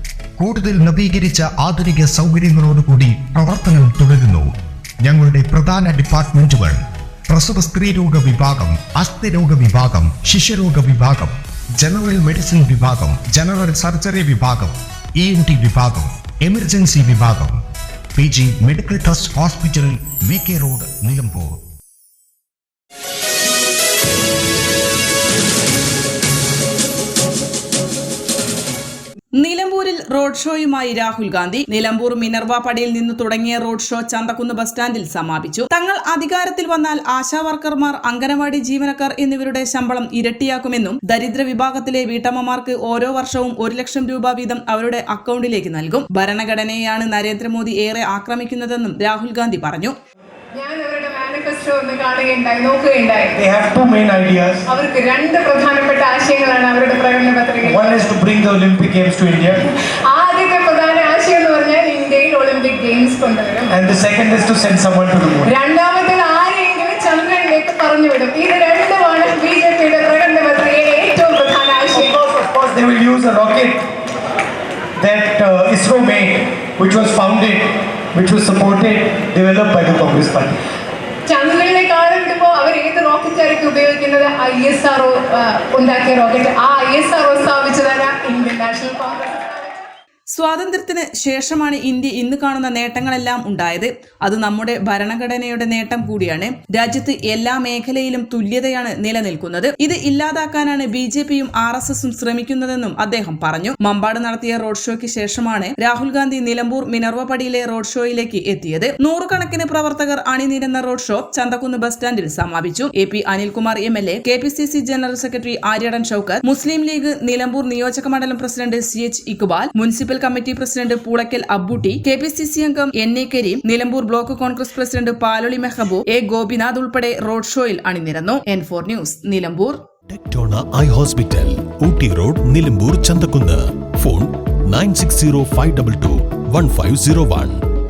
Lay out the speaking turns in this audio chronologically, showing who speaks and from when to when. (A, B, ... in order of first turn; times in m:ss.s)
0:00.4-0:04.5 A
0:05.0-0:17.6 A
0:18.2-0:21.6 A
0:29.4-0:49.9 B
0:50.5-0:53.4 C
0:53.4-0:54.6 D
0:54.7-0:58.0 C
0:57.6-0:59.6 D
0:59.6-1:03.7 C
1:03.7-1:05.5 D
1:05.4-1:12.1 C
1:11.9-1:13.8 D
1:15.0-1:20.6 D
1:21.3-1:29.9 C
1:30.3-2:09.8 B
2:10.1-2:17.6 E